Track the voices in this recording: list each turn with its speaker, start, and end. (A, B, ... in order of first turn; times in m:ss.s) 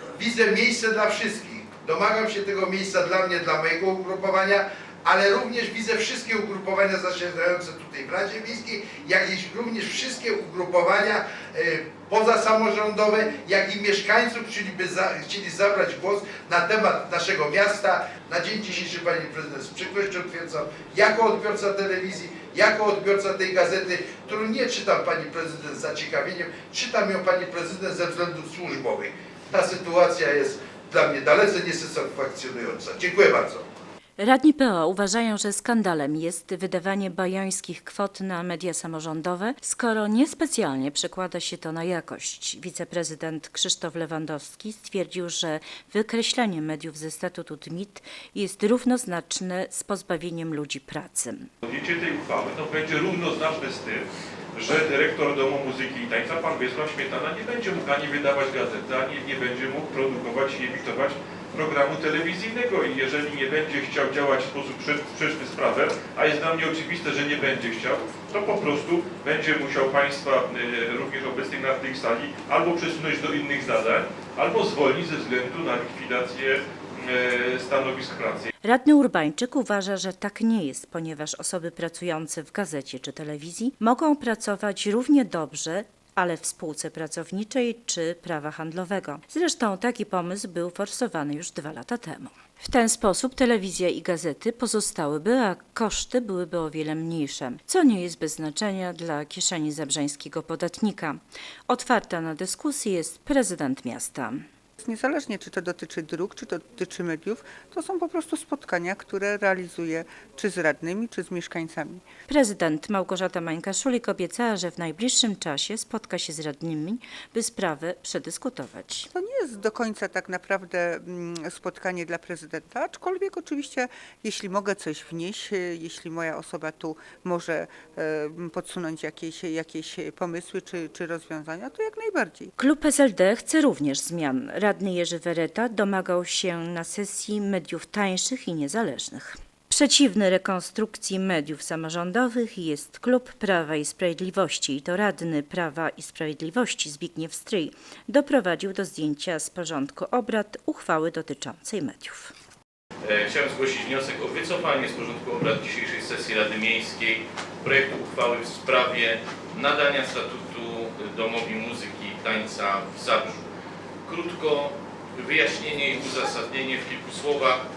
0:00.2-0:33.6 A
0:34.2-0:51.5 B
0:51.6-1:18.5 C
1:18.6-1:44.4 B
1:44.8-1:52.0 D
1:52.3-1:59.1 B
1:59.1-2:12.5 D
2:12.6-2:32.3 B
2:33.0-2:43.4 E
2:44.0-2:47.6 E